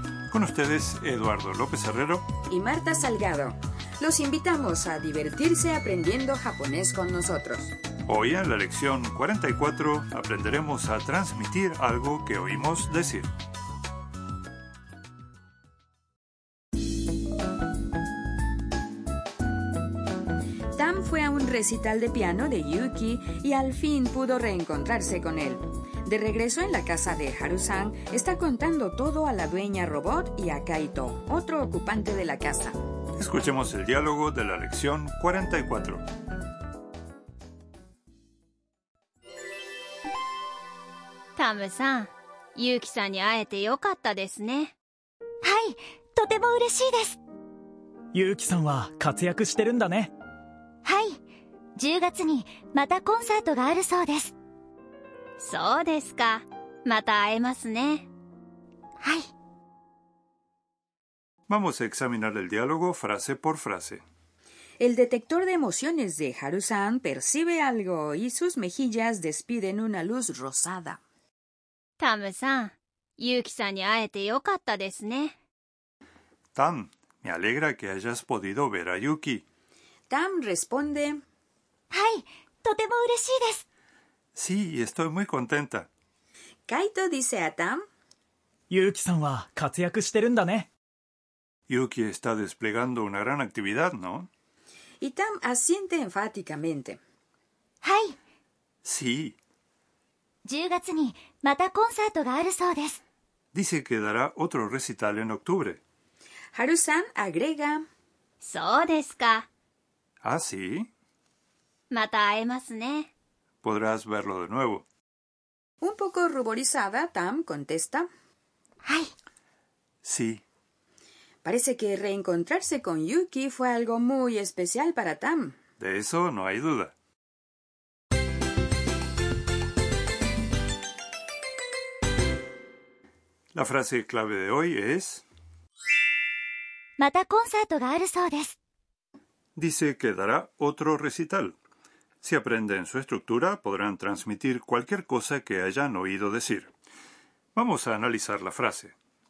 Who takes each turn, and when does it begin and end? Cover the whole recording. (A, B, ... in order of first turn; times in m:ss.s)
0:00.3-0:02.3 A
0:02.5-0:07.8 B
0:08.0-0:13.3 A
0:20.8-0:32.8 B
0:33.2-0:36.0 A
0:41.4-0:44.7 C
0:45.4-0:47.2 D
0:48.1-0:50.1 E
0:50.8-0:51.2 D
0:51.8-0:54.3 D
0:55.4-0:58.1 C
0:59.0-0:59.3 D
1:01.5-1:04.0 A
1:04.8-1:11.0 B
1:12.0-1:15.4 C
1:16.6-1:19.4 A
1:20.1-1:21.2 B
1:21.9-1:23.6 D
1:24.3-1:25.9 A
1:26.7-1:27.8 B
1:28.7-1:30.7 E
1:31.7-1:34.3 A
1:35.0-1:37.0 B
1:37.8-1:38.2 D
1:38.8-1:39.4 A
1:40.4-1:43.0 D
1:43.5-1:45.8 A
1:46.6-1:47.8 B
1:48.4-1:49.4 C
1:50.2-1:50.9 A
1:51.9-1:53.1 C
1:53.6-1:54.9 A
1:55.8-1:58.1 B
1:58.8-1:59.1 D
2:00.0-2:00.4 A
2:01.4-2:05.6 B
2:05.8-2:07.0 A
2:13.5-2:15.2 A
2:17.0-2:18.6 D
2:19.6-2:21.6 A
2:22.2-2:26.7 A
2:27.5-2:28.9 A